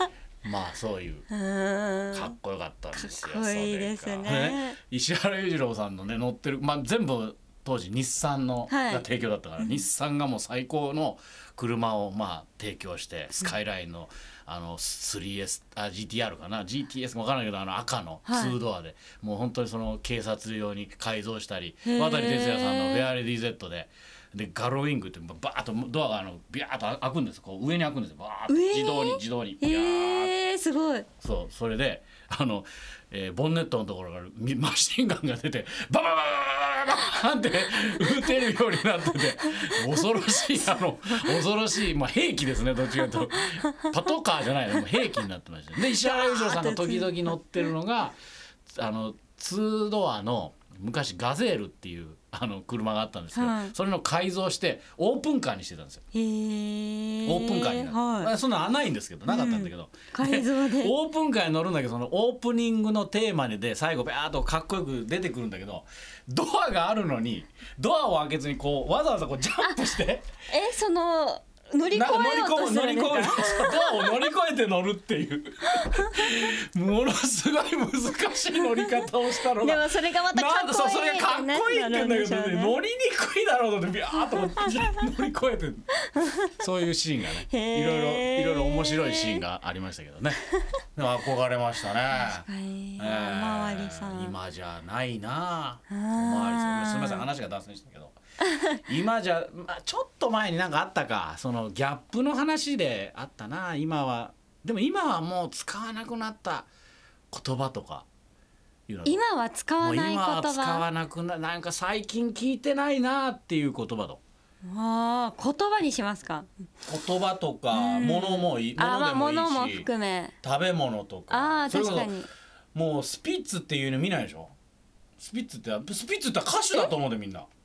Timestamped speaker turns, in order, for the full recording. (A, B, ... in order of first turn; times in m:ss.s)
0:00.4-0:01.3 A
0:01.3-0:02.3 B
0:02.1-0:30.3 A
0:02.9-0:04.8 B
0:08.7-0:09.0 B
0:18.3-0:18.6 B
0:21.9-0:23.1 B
0:28.5-0:31.1 B
0:31.2-0:48.2 A
0:46.0-0:47.7 B
0:48.7-0:56.0 A
0:53.4-0:53.7 B
0:56.1-0:58.3 B
0:57.3-1:10.2 A
0:59.3-1:00.9 B
1:10.5-1:14.1 B
1:11.9-1:30.4 A
1:19.5-1:22.8 B
1:24.6-1:25.0 B
1:26.1-1:26.5 B
1:27.5-1:29.4 B
1:31.0-1:32.5 A
1:32.1-1:34.4 B
1:33.0-1:38.2 A
1:35.9-1:37.2 B
1:38.7-1:46.7 A
1:47.3-1:48.1 A
1:48.9-1:49.2 A
1:49.0-1:50.8 B
1:49.8-1:54.2 A
1:54.7-1:56.5 B
1:56.9-1:59.9 A
1:57.7-2:00.4 B
2:00.4-2:02.1 A
2:01.3-2:02.3 B
2:02.7-2:04.5 A
2:05.2-2:07.5 A